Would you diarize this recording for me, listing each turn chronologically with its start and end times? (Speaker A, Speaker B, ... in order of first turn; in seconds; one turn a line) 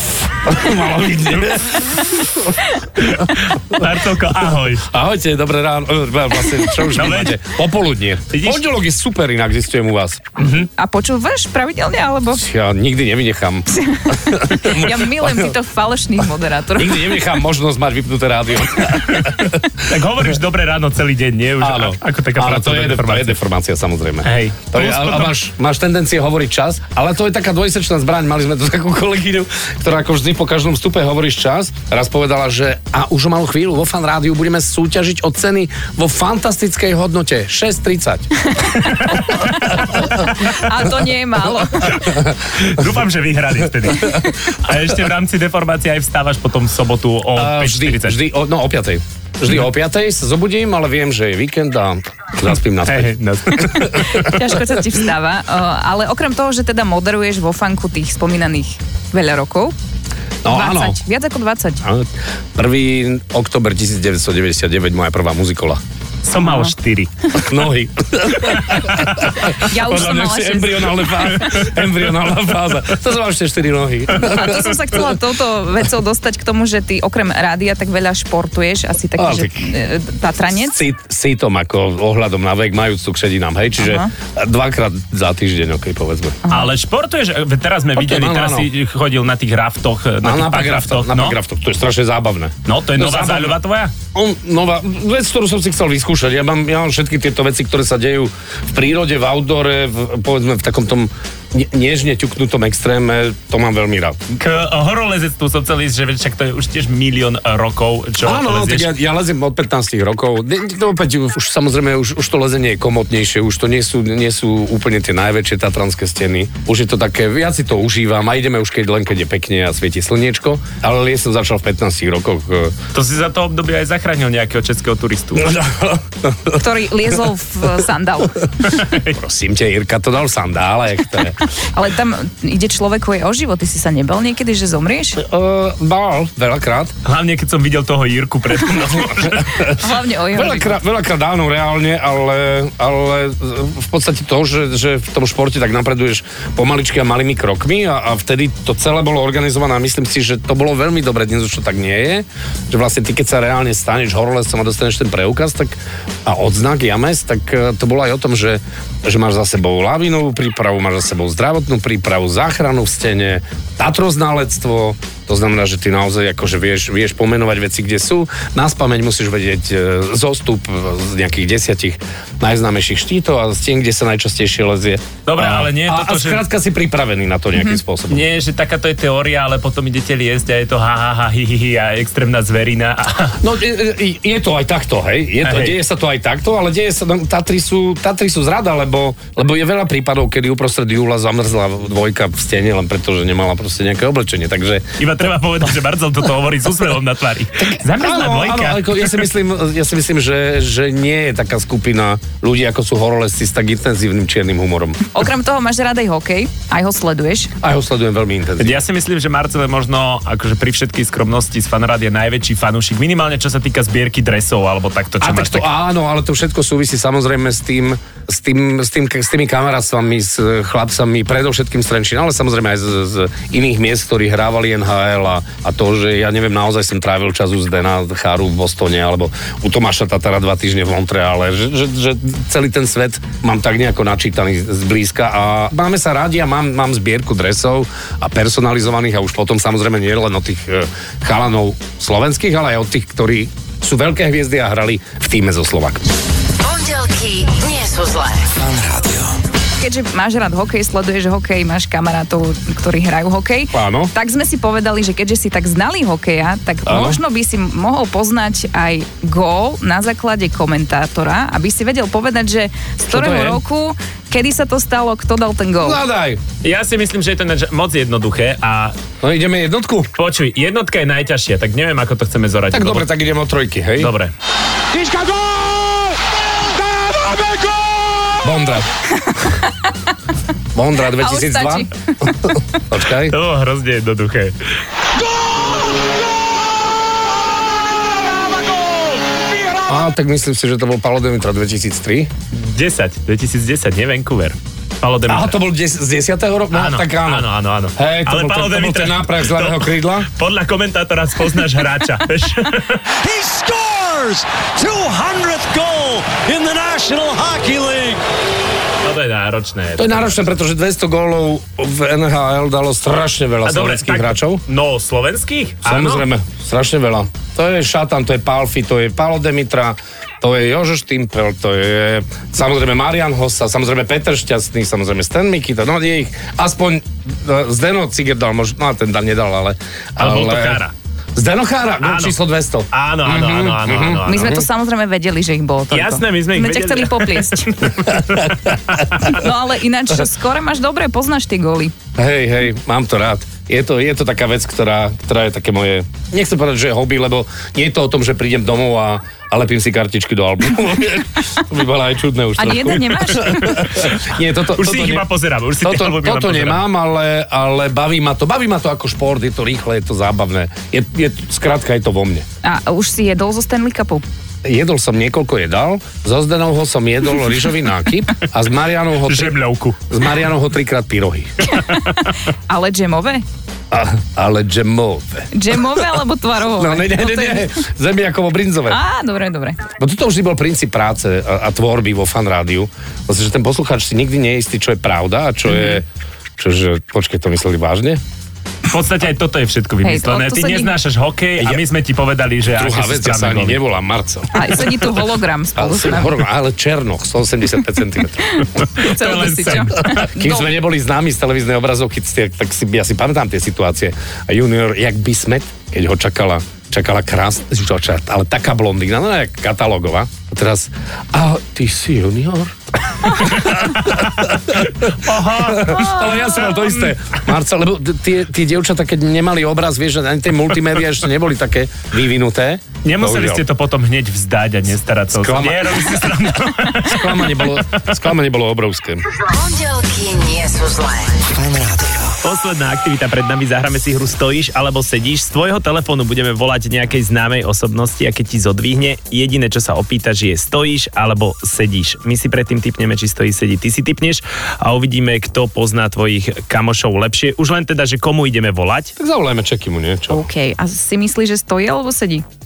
Speaker A: 0.4-2.5
Speaker B: 3.0-4.9
Speaker A: 4.9-10.7
Speaker B: 6.8-7.4
Speaker B: 8.3-8.6
Speaker C: 10.8-12.4
Speaker A: 12.3-15.5
Speaker C: 13.8-17.2
Speaker A: 16.8-19.7
Speaker B: 19.0-23.3
Speaker A: 21.6-38.4
Speaker B: 24.2-25.3
Speaker C: 38.6-42.1
Speaker B: 38.8-39.3
Speaker A: 39.4-40.1
Speaker B: 41.9-48.2
Speaker C: 44.0-44.5
Speaker A: 47.3-53.1
Speaker B: 52.8-54.2
Speaker A: 53.6-54.3
Speaker C: 53.9-59.7
Speaker A: 60.4-61.0
Speaker C: 60.5-61.8
Speaker A: 61.8-65.8
Speaker B: 66.2-67.4
Speaker C: 66.4-66.7
Speaker A: 67.3-75.0
Speaker B: 68.4-69.3
Speaker C: 69.3-71.5
Speaker C: 74.2-80.8
Speaker A: 79.2-79.7
Speaker A: 80.5-86.4
Speaker C: 83.8-84.1
Speaker C: 86.4-86.7
Speaker B: 86.5-91.4
Speaker A: 88.0-88.7
Speaker A: 90.2-93.6
Speaker B: 92.7-93.9
Speaker A: 94.1-104.2
Speaker B: 104.3-108.9
Speaker A: 108.2-122.7
Speaker B: 122.9-125.6
Speaker A: 125.4-126.6
Speaker C: 126.5-128.5
Speaker B: 128.6-129.1
Speaker A: 129.1-131.4
Speaker C: 131.7-135.2
Speaker A: 135.2-136.9
Speaker B: 137.0-139.7
Speaker A: 139.3-178.2
Speaker C: 139.7-140.8
Speaker B: 175.3-176.4
Speaker B: 178.1-183.4
Speaker A: 183.4-194.8
Speaker B: 185.4-185.8
Speaker B: 195.0-199.3
Speaker A: 197.9-205.0
Speaker C: 205.1-207.5
Speaker A: 207.6-208.8
Speaker B: 208.6-215.7
Speaker A: 215.2-246.1
Speaker D: 246.6-248.7
Speaker A: 248.7-249.2
Speaker C: 249.8-266.0
Speaker A: 253.7-254.1
Speaker A: 256.9-257.2
Speaker A: 263.0-263.6
Speaker A: 265.8-266.4
Speaker B: 266.6-269.0
Speaker A: 269.2-270.1
Speaker B: 270.1-273.1
Speaker A: 272.7-274.1
Speaker B: 274.0-274.3
Speaker E: 274.9-276.1
Speaker E: 276.8-278.4
Speaker A: 278.4-278.9
Speaker C: 279.3-279.7
Speaker A: 280.7-281.9
Speaker C: 281.1-281.9
Speaker A: 282.8-283.3
Speaker B: 283.2-284.6
Speaker A: 289.9-292.3
Speaker B: 292.5-295.6
Speaker A: 295.3-300.3
Speaker B: 296.7-303.8
Speaker E: 303.2-308.2
Speaker B: 309.0-310.4
Speaker A: 310.0-314.6
Speaker B: 313.6-316.3
Speaker A: 315.8-330.8
Speaker B: 330.2-330.9
Speaker A: 331.4-334.6
Speaker B: 332.0-332.4
Speaker B: 332.9-334.6
Speaker C: 334.2-337.7
Speaker B: 335.9-339.3
Speaker C: 339.2-341.9
Speaker A: 342.1-355.2
Speaker C: 352.6-353.9
Speaker B: 353.7-356.9
Speaker A: 355.8-362.4
Speaker C: 362.6-364.2
Speaker A: 364.6-369.6
Speaker B: 369.2-370.0
Speaker A: 370.1-371.6
Speaker C: 371.7-373.4
Speaker A: 373.9-375.5
Speaker C: 375.5-377.8
Speaker A: 376.8-379.0
Speaker C: 378.9-379.8
Speaker A: 380.0-386.0
Speaker C: 385.7-386.0
Speaker A: 386.6-388.2
Speaker B: 388.9-393.8
Speaker C: 390.0-390.9
Speaker A: 392.7-395.1
Speaker C: 394.5-396.4
Speaker A: 395.8-398.7
Speaker B: 398.8-400.3
Speaker C: 398.8-400.7
Speaker A: 400.1-423.6
Speaker B: 413.5-416.9
Speaker C: 416.3-416.7
Speaker B: 423.0-427.8
Speaker A: 425.3-426.1
Speaker A: 427.0-429.2
Speaker D: 429.4-431.6
Speaker E: 431.7-432.3
Speaker B: 432.3-449.1
Speaker A: 449.2-450.4
Speaker C: 450.3-452.4